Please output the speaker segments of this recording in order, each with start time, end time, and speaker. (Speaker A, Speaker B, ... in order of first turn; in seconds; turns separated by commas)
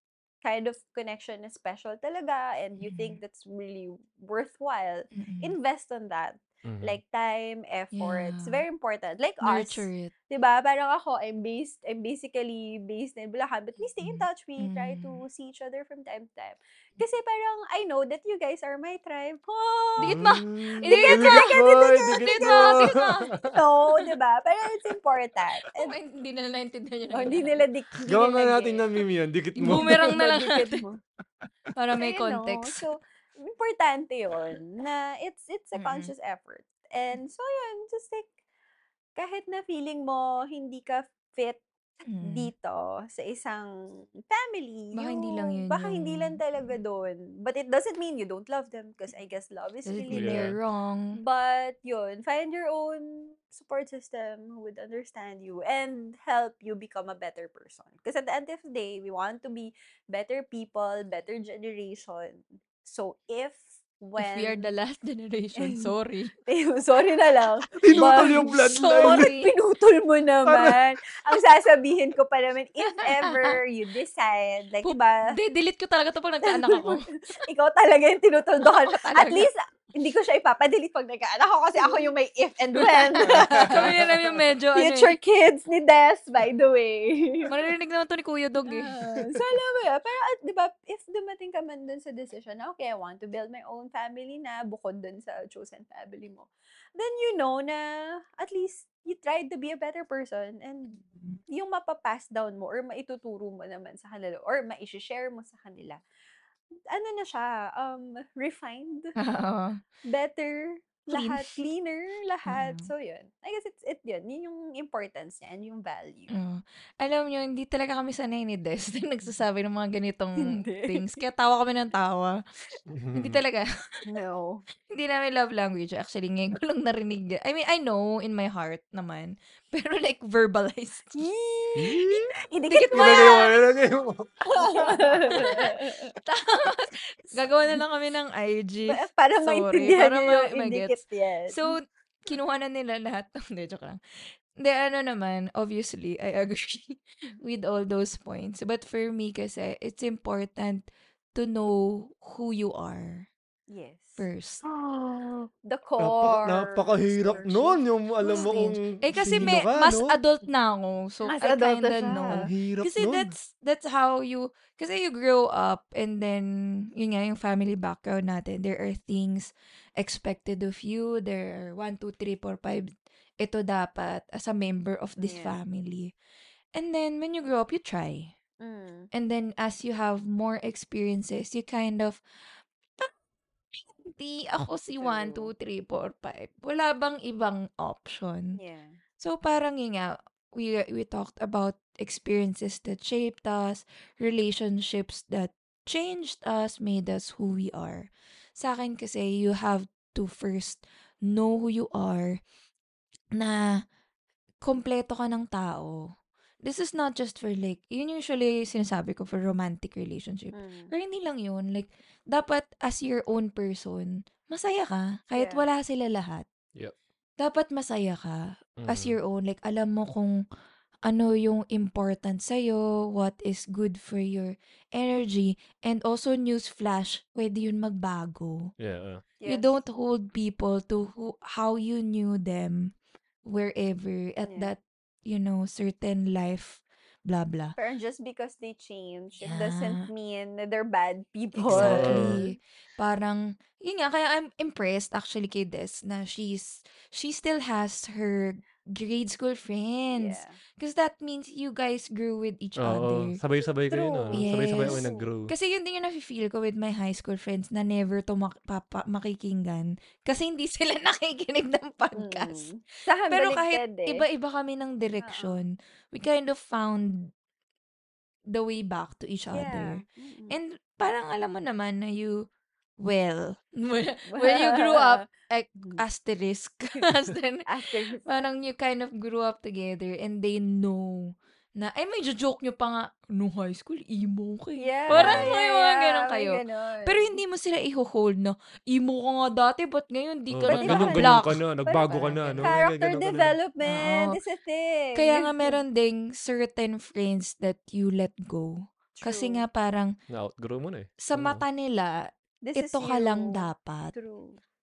Speaker A: 0.4-25.9, Speaker B: 2.8-3.2, Speaker B: 5.1-5.5, Speaker C: 6.6-7.0, Speaker B: 7.9-8.6, Speaker B: 9.4-10.1, Speaker B: 14.0-15.2, Speaker B: 20.0-23.3, Speaker C: 20.1-23.6, Speaker B: 25.7-27.6, Speaker A: 27.1-28.9, Speaker C: 28.1-30.2, Speaker B: 29.6-30.8, Speaker A: 29.6-31.0, Speaker B: 31.7-32.8, Speaker A: 32.0-38.3, Speaker B: 35.7-36.1, Speaker A: 39.2-41.6, Speaker B: 42.0-42.5, Speaker A: 42.2-50.5, Speaker B: 44.9-46.4, Speaker B: 49.9-51.2, Speaker C: 50.1-50.5, Speaker A: 51.1-64.7, Speaker B: 64.2-66.3, Speaker A: 65.6-65.9, Speaker A: 66.5-75.3, Speaker C: 67.7-69.3, Speaker B: 67.9-69.5, Speaker C: 70.5-70.8, Speaker B: 73.0-73.5, Speaker B: 74.8-77.4, Speaker A: 76.4-87.5, Speaker B: 78.8-79.5, Speaker B: 83.0-85.1, Speaker C: 83.3-84.0, Speaker B: 87.5-89.0, Speaker A: 88.7-106.0, Speaker A: 106.9-109.1, Speaker B: 109.2-109.8, Speaker A: 110.1-116.3, Speaker B: 111.1-111.6, Speaker B: 112.5-112.9, Speaker B: 116.3-122.4, Speaker A: 120.4-121.2, Speaker C: 122.9-123.4, Speaker B: 123.1-123.7, Speaker A: 124.1-124.6, Speaker B: 124.9-131.2, Speaker A: 131.2-133.7, Speaker C: 131.8-132.3, Speaker B: 132.7-133.5, Speaker C: 132.9-134.9, Speaker B: 134.5-141.0, Speaker A: 134.5-136.1, Speaker A: 138.9-141.7, Speaker B: 141.5-153.3, Speaker A: 153.7-154.3, Speaker B: 154.2-154.6, Speaker C: 154.8-155.5, Speaker A: 155.6-158.6, Speaker C: 156.0-160.2, Speaker B: 158.4-172.9, Speaker A: 161.3-162.5, Speaker C: 162.2-163.3, Speaker B: 173.4-176.1, Speaker A: 175.2-175.6, Speaker B: 176.7-178.3, Speaker A: 178.6-179.1, Speaker B: 179.1-182.2, Speaker B: 183.8-188.6, Speaker A: 185.0-185.5, Speaker A: 188.6-189.0, Speaker B: 189.2-202.4, Speaker B: 203.4-203.8, Speaker B: 204.6-206.1, Speaker B: 206.6-216.4, Speaker A: 210.5-210.9, Speaker A: 215.3-215.7, Speaker B: 217.4-220.4, Speaker C: 218.8-219.2, Speaker B: 221.1-228.7, Speaker C: 228.8-229.2, Speaker A: 229.4-229.8, Speaker B: 229.4-232.9, Speaker B: 233.4-237.8, Speaker A: 234.5-234.7, Speaker A: 237.8-242.5, Speaker B: 239.4-240.1, Speaker B: 241.6-253.4, Speaker C: 241.7-242.4, Speaker A: 250.1-250.6, Speaker C: 252.8-255.5, Speaker A: 253.9-255.3, Speaker B: 254.3-262.7, Speaker A: 262.1-264.3, Speaker B: 263.3-267.3, Speaker A: 265.2-265.6, Speaker B: 268.5-272.5, Speaker A: 269.5-270.6, Speaker B: 273.0-277.7, Speaker A: 274.3-275.3, Speaker A: 277.7-278.3, Speaker B: 278.2-292.8, Speaker A: 284.8-287.4, Speaker C: 285.1-285.5, Speaker C: 290.5-293.6, Speaker A: 290.7-295.8, Speaker B: 293.9-294.4, Speaker B: 295.1-300.1, Speaker A: 299.2-299.6, Speaker C: 300.3-301.6, Speaker B: 301.2-304.1, Speaker A: 302.6-304.6